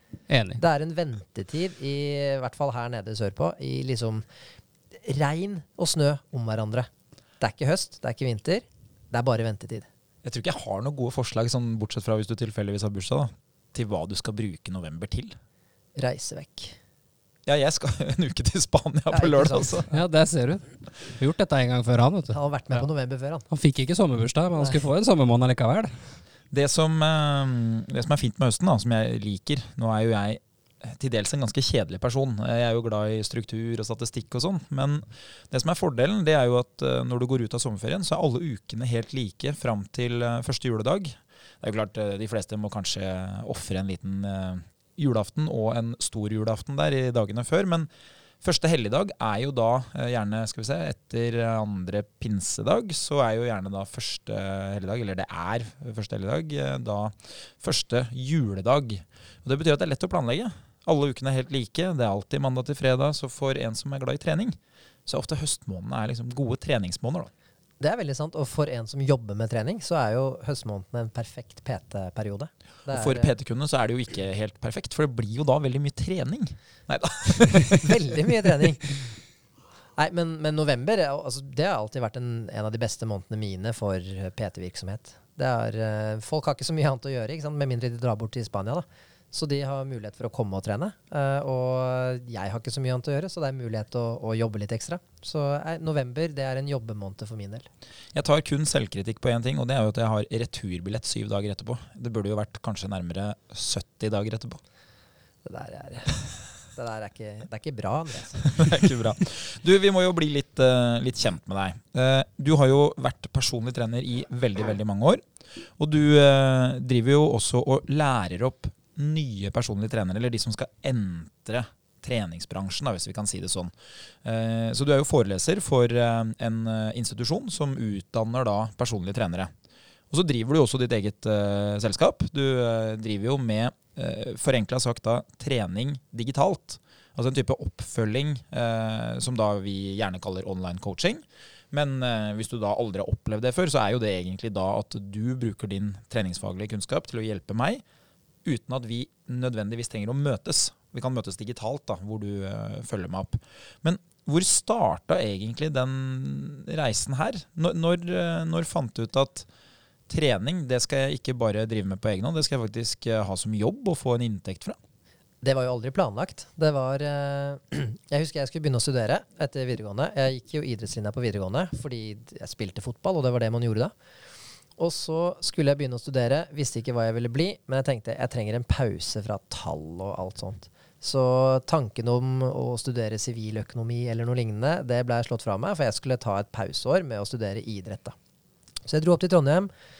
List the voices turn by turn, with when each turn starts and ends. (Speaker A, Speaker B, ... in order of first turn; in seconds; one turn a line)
Speaker A: 0.3-0.6
Speaker B: 0.6-4.2
Speaker B: 5.0-6.9
Speaker B: 7.4-9.9
Speaker C: 10.2-15.4
Speaker B: 16.0-16.8
Speaker C: 17.4-19.9
Speaker B: 19.1-19.9
Speaker A: 19.9-22.9
Speaker B: 22.3-23.4
Speaker A: 23.5-25.9
Speaker C: 26.5-47.9
Speaker C: 48.4-67.3
Speaker B: 67.8-73.3
Speaker C: 72.9-77.7
Speaker B: 77.7-79.0
Speaker B: 80.0-97.7
Speaker C: 98.1-104.6
Speaker B: 105.4-108.6
Speaker C: 108.4-115.2
Speaker C: 115.8-123.7
Speaker C: 124.2-129.5
Speaker C: 130.1-147.8
Speaker C: 148.4-159.5
Speaker C: 160.1-164.8
Speaker B: 165.4-173.9
Speaker B: 174.8-188.1
Speaker B: 188.8-189.7